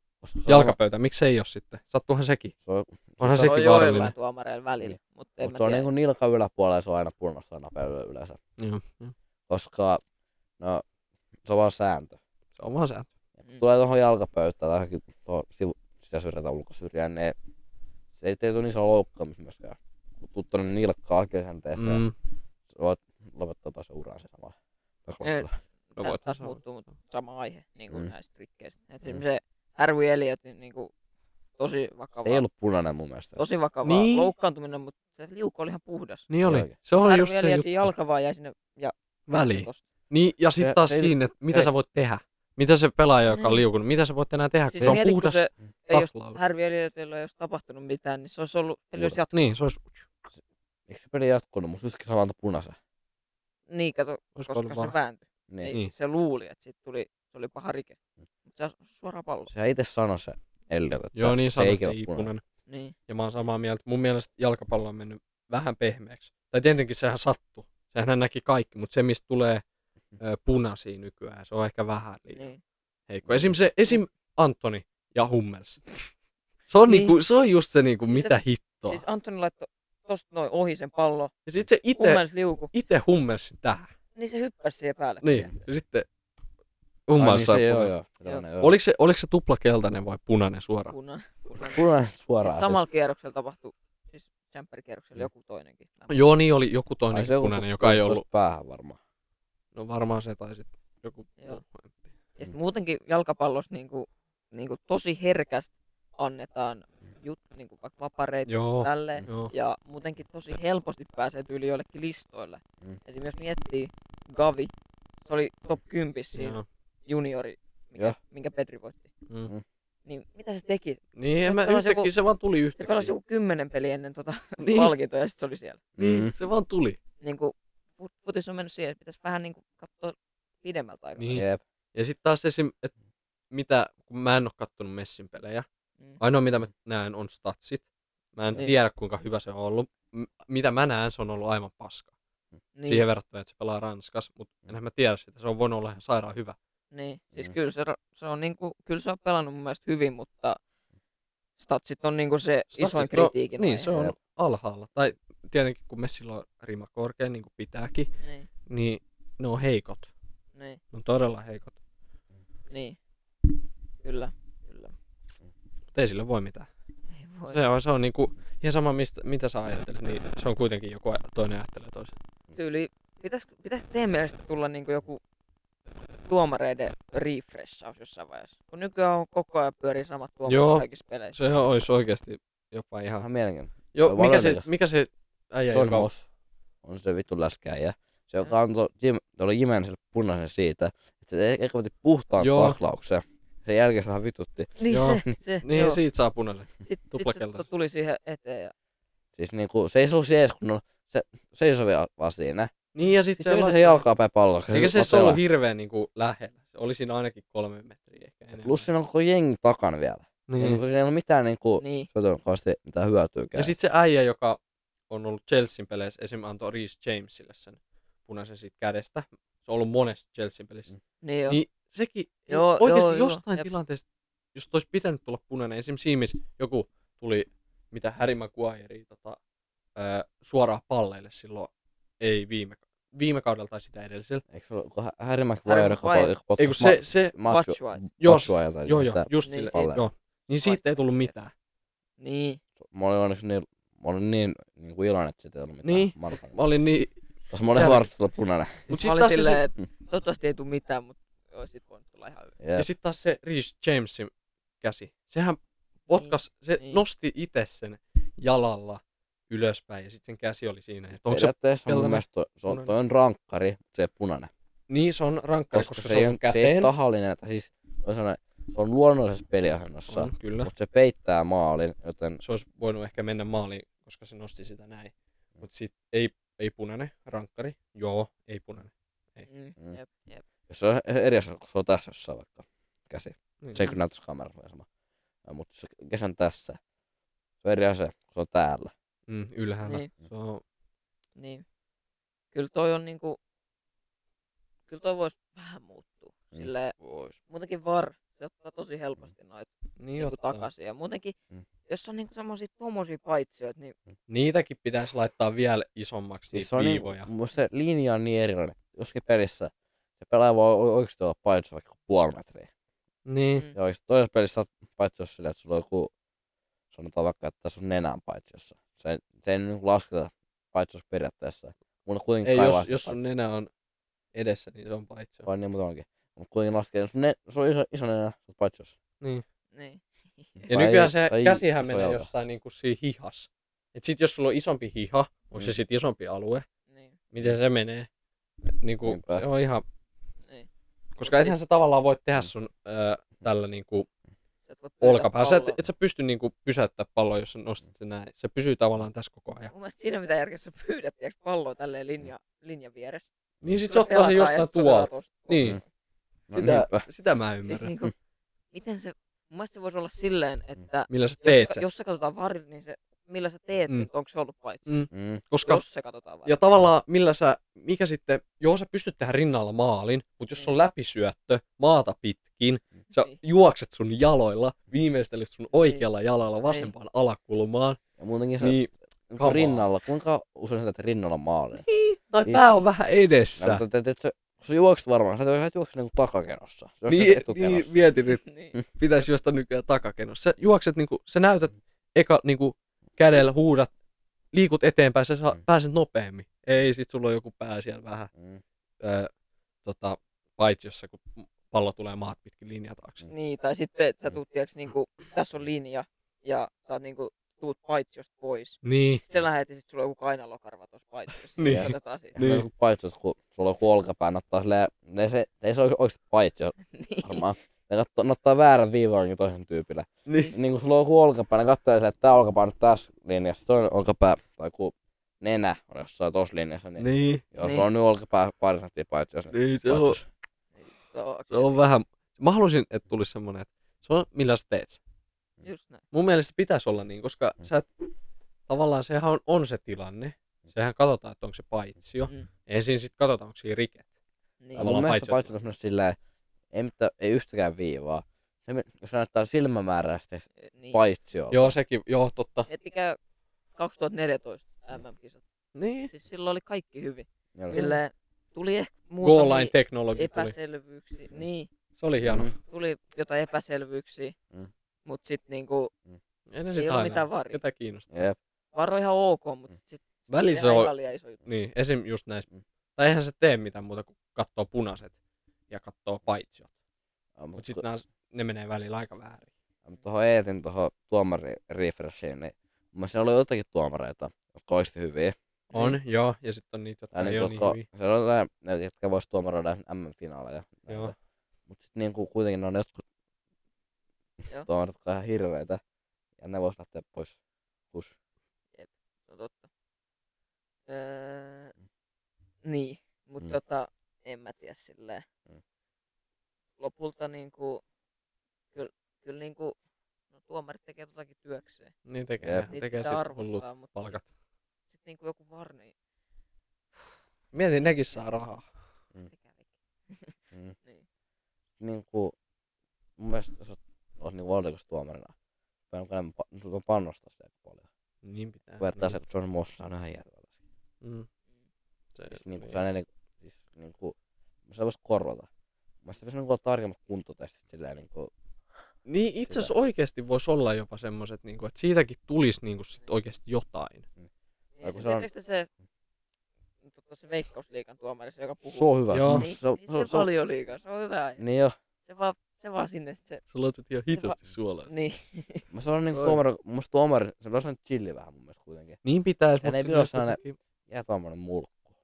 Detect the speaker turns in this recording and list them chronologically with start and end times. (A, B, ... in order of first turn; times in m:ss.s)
0:00.2-0:00.8 A
0:00.5-0:02.5 B
0:02.6-0:04.0 A
0:03.2-0:04.1 B
0:03.3-0:05.9 C
0:04.8-0:08.4 A
0:08.6-0:09.1 B
0:09.5-0:10.0 A
0:10.6-0:10.8 A
0:11.4-0:12.2 A
0:12.6-0:13.1 B
0:13.5-0:17.4 A
0:18.2-0:22.0 A
0:21.8-0:22.1 B
0:22.7-0:24.6 A
0:25.1-0:25.5 A
0:25.2-0:30.9 C
0:26.0-0:26.6 B
0:31.6-0:32.4 C
0:32.2-0:33.4 A
0:33.4-0:36.3 C
0:33.8-0:34.3 B
0:36.3-0:37.9 B
0:36.4-0:36.7 A
0:36.9-0:39.8 C
0:39.3-0:46.4 B
0:40.6-0:41.7 A
0:43.3-0:43.6 C
0:44.7-0:49.5 C
0:49.3-0:50.1 B
0:50.9-0:52.8 A
0:53.7-0:59.5 C
0:54.4-0:54.9 B
0:55.5-0:55.8 A
0:59.5-1:02.3 A
1:01.2-1:02.4 B
1:02.7-1:02.9 C
1:03.1-1:09.6 B
1:10.2-1:12.5 B
1:12.3-1:12.6 C
1:13.1-1:16.0 B
1:13.3-1:13.6 A
1:16.7-1:19.0 B
1:16.9-1:17.2 C
1:18.1-1:21.3 C
1:21.5-1:23.9 B
1:22.0-1:22.7 C
1:24.2-1:25.5 C
1:25.2-1:26.1 B
1:27.1-1:27.9 B
1:27.2-1:28.8 A
1:28.6-1:30.9 B
1:30.9-1:31.9 C
1:31.6-1:32.8 A
1:32.4-1:36.2 C
1:36.1-1:38.2 B
1:37.1-1:39.0 A
1:39.8-1:41.9 B
1:42.4-1:54.7 C
1:48.5-1:49.5 B
1:55.3-1:59.1 C
1:56.4-1:56.6 B
2:00.1-2:02.1 C
2:01.2-2:03.1 B
2:02.8-2:05.8 C
2:04.6-2:04.9 B
2:06.0-2:06.3 A
2:06.0-2:07.0 B
2:07.2-2:11.3 C
2:11.2-2:12.9 B
2:11.3-2:11.6 A
2:13.5-2:15.7 B
2:16.2-2:22.1 B
2:22.8-2:23.1 C
2:22.9-2:26.6 B
2:26.9-2:30.6 C
2:31.6-2:33.9 C
2:32.7-2:38.1 B
2:38.2-2:38.5 C
2:38.7-2:40.1 B
2:40.6-2:40.8 C
2:40.9-2:41.8 B
2:42.7-2:43.0 C
2:44.0-2:44.9 C
2:45.9-2:46.7 B
2:47.2-2:47.7 C
2:47.5-2:52.1 B
2:52.6-2:55.2 C
2:56.2-3:01.4 C
3:00.5-3:03.3 B
3:03.2-3:04.7 A
3:03.9-3:06.1 B
3:05.7-3:06.2 A
3:06.8-3:14.8 A
3:12.4-3:12.8 B
3:14.8-3:16.0 C
3:14.9-3:17.6 B
3:16.8-3:18.7 C
3:19.4-3:22.7 A
3:23.0-3:24.0 B
3:23.4-3:25.4 A
3:24.7-3:28.9 B
3:28.6-3:33.7 A
3:30.5-3:30.8 B
3:31.8-3:32.1 C
3:33.6-3:34.6 B
3:35.1-3:40.9 B
3:41.2-3:41.6 C
3:41.5-3:44.0 B
3:42.5-3:43.7 C
3:44.6-3:49.4 B
3:50.0-3:54.4 B
3:54.5-4:00.1 A
3:55.7-3:56.4 C
3:56.6-3:57.4 B
3:57.4-3:58.0 C
3:58.2-4:01.5 B
3:59.4-3:59.8 C
4:00.6-4:01.3 C
4:02.2-4:02.6 C
4:02.8-4:06.6 A
4:05.8-4:07.2 B
4:07.5-4:08.8 A
4:07.7-4:08.1 B
4:08.9-4:12.6 C
4:08.9-4:09.6 B
4:12.6-4:12.9 A
4:12.8-4:22.9 B
4:16.1-4:17.0 C
4:21.1-4:24.5 A
4:24.9-4:26.9 B
4:25.7-4:32.4 A
4:30.1-4:30.7 B
4:32.4-4:39.5 B
4:39.5-4:40.4 C
4:40.7-4:44.9 A
4:43.6-4:43.9 B
4:45.4-4:46.8 A
4:47.6-4:48.9 A
4:49.3-4:50.6 B
4:51.4-4:51.6 C
4:52.5-4:53.4 C
4:54.9-4:56.9 C
4:57.0-4:57.4 B
4:57.5-5:01.4 C
5:00.0-5:00.6 B
5:01.9-5:04.0 C
5:04.3-5:07.3 B
5:06.5-5:12.7 A
5:13.3-5:13.6 B
5:13.8-5:16.1 A
5:16.9-5:23.2 A
5:22.4-5:23.7 B
5:24.3-5:25.5 B
5:25.5-5:29.0 A
5:29.7-5:30.7 C
5:30.7-5:32.3 A
5:30.7-5:36.6 B
5:36.9-5:37.2 C
5:37.3-5:38.1 B
5:38.8-5:39.8 B
5:39.0-5:39.4 A
5:41.2-5:44.1 B
5:41.2-5:41.6 C
5:44.7-5:45.8 C
5:45.0-5:49.7 B
5:49.7-5:53.3 C
5:53.6-5:55.8 B
5:53.8-5:55.8 C
5:56.5-5:57.0 A
5:56.5-5:57.9 B
5:57.6-5:58.1 C
5:58.7-6:04.9 C
6:01.1-6:01.8 B
6:04.9-6:05.8 B
6:05.1-6:05.4 A
6:05.6-6:06.6 C
6:06.5-6:18.0 B
6:15.7-6:16.1 C
6:16.7-6:16.9 C
6:18.2-6:21.8 A
6:18.6-6:19.8 B
6:21.9-6:23.8 B
6:23.6-6:28.0 A
6:27.1-6:33.9 B
6:28.4-6:28.8 C
6:34.5-6:38.3 B
6:38.4-6:38.6 A
6:39.0-6:39.3 B
6:39.8-6:43.2 B
6:43.3-6:52.4 C
6:48.8-6:49.2 B
6:51.6-6:52.7 B
6:51.7-7:10.3 A
6:56.9-6:57.4 C
7:00.3-7:00.6 B
7:07.0-7:07.4 B
7:07.6-7:07.9 C
7:09.5-7:10.2 B
7:10.8-7:11.8 C
7:11.5-7:15.0 B
7:15.6-7:16.0 C
7:16.1-7:17.9 B
7:18.7-7:24.0 B
7:24.6-7:24.9 C
7:24.8-7:25.5 B
7:24.8-7:26.2 A
7:26.7-7:31.8 A
7:30.6-7:31.0 C
7:31.5-7:32.7 B
7:32.7-7:33.2 C
7:33.8-7:35.4 C
7:35.8-7:36.1 B
7:36.1-7:41.7 C
7:37.7-7:38.0 B
7:39.2-7:40.6 B
7:42.0-7:42.5 B
7:42.2-7:42.5 A
7:42.6-7:44.4 C
7:45.0-7:45.9 C
7:46.5-7:48.3 B
7:46.7-7:47.6 C
7:48.1-7:48.4 A
7:48.7-7:51.4 C
7:50.3-7:50.9 B
7:51.4-7:55.1 B
7:55.7-7:56.7 B
7:57.4-7:57.8 A
7:57.6-7:59.5 B
7:59.8-8:05.4 A
8:05.7-8:07.8 B
8:07.1-8:11.1 A
8:10.9-8:11.1 B
8:11.7-8:13.0 A
8:14.6-8:15.8 A
8:16.4-8:17.4 A
8:18.8-8:19.7 C
8:20.9-8:21.8 C
8:22.6-8:25.2 C
8:26.8-8:27.8 C
8:28.7-8:29.8 C
8:30.3-8:31.9 C
8:32.1-8:34.3 B
8:32.4-8:32.7 A
8:32.7-8:34.2 C
8:34.9-8:35.9 C
8:37.5-8:38.6 B
8:39.3-8:41.0 C
8:41.8-8:42.3 A
8:43.2-8:45.3 A
8:45.9-8:47.9 A
8:48.2-8:49.2 B
8:48.8-8:50.5 A
8:51.0-8:51.3 B
8:52.2-8:52.8 B
8:52.3-8:54.2 A
8:54.7-8:55.5 A
8:56.0-8:58.3 A
8:59.1-9:04.1 B
8:59.5-8:59.7 A
9:04.8-9:05.7 C
9:04.8-9:05.3 A
9:06.9-9:11.4 C
9:08.7-9:10.3 A
9:09.1-9:09.5 B
9:11.4-9:11.8 A
9:12.1-9:13.4 C
9:13.5-9:14.9 B
9:14.1-9:15.6 C
9:15.7-9:19.0 A
9:16.1-9:16.4 B
9:19.0-9:20.6 B
9:19.6-9:21.9 A